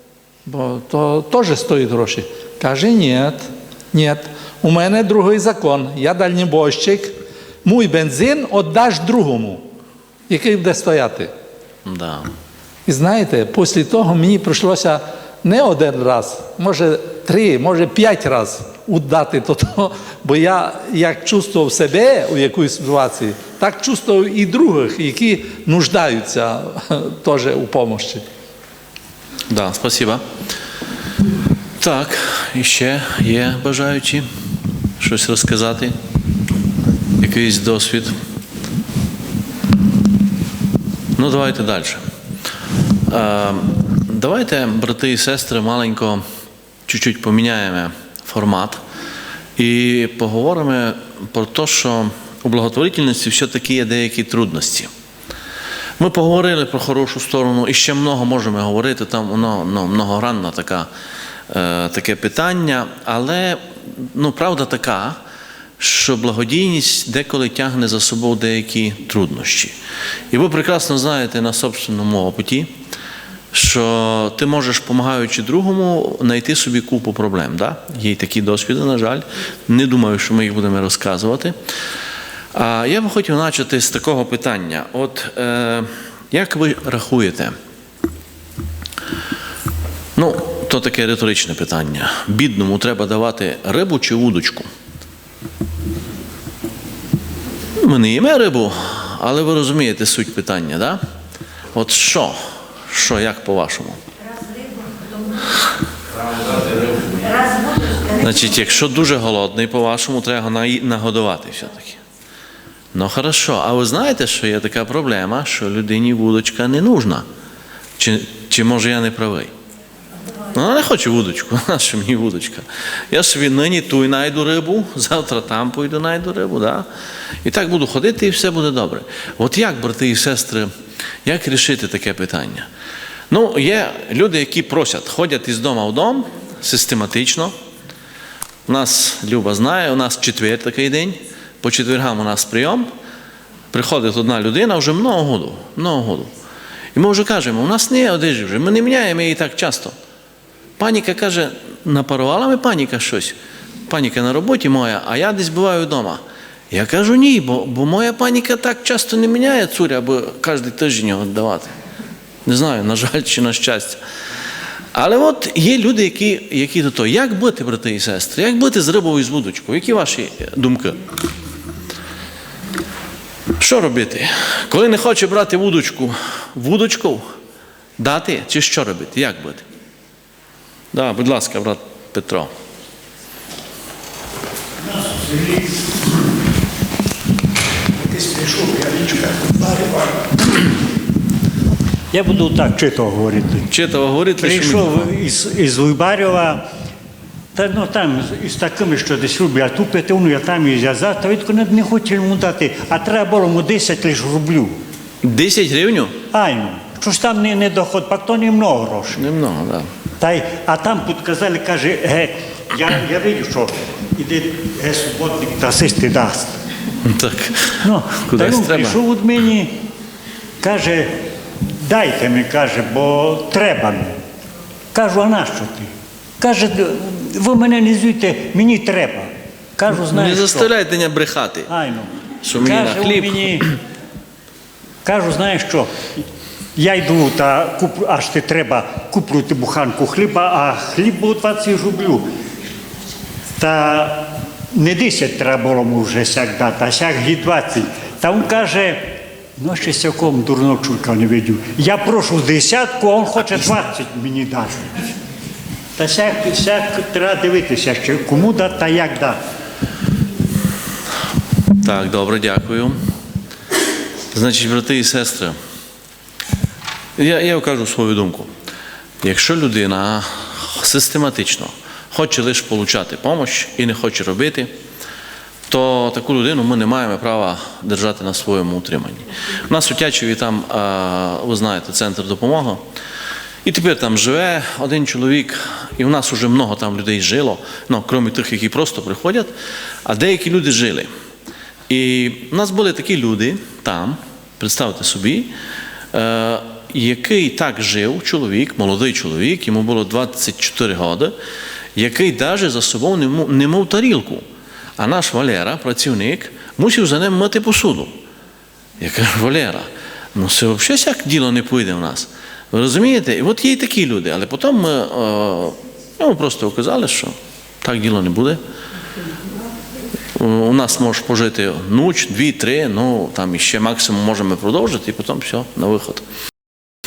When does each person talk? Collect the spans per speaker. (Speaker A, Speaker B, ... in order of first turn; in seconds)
Speaker A: 0.5-9.6, 10.3-11.3, 12.9-28.2
Speaker B: 11.8-12.3, 29.5-30.2, 31.8-34.3, 35.0-36.0, 37.2-38.1, 41.2-42.0, 43.1-46.2, 46.9-48.8, 49.6-54.9, 56.0-60.9, 61.5-65.2, 65.8-69.8, 70.3-72.8, 73.5-81.5, 82.5-87.6, 90.2-94.7, 97.8-101.0, 101.7-104.0, 108.1-112.0, 112.9-117.2, 118.0-119.5, 120.5-126.9, 127.5-130.7, 131.2-132.7, 133.3-137.5, 138.7-142.9, 143.7-146.3, 146.9-149.9, 150.8-153.3, 153.9-161.7, 162.5-164.0, 164.9-171.0, 173.6-177.2, 178.0-179.7, 180.9-182.5, 193.7-195.1, 205.2-206.2, 209.2-209.9, 217.1-219.0, 229.9-231.7, 232.4-233.6, 261.8-263.0, 264.3-265.6, 267.2-268.5, 269.2-274.7, 275.7-282.8, 283.6-289.5, 290.1-291.1, 291.9-295.5, 296.1-301.4, 302.0-304.4, 305.0-308.1, 309.0-318.6, 320.4-326.2
Speaker C: 184.8-185.9, 188.0-190.6, 192.1-193.7, 194.4-196.6, 197.6-204.8, 206.3-209.2, 210.2-216.6, 217.8-219.7, 220.6-221.1, 221.7-224.2, 224.9-230.7, 231.7-233.7, 235.0-236.2, 236.8-242.3, 243.6-255.1, 256.0-259.4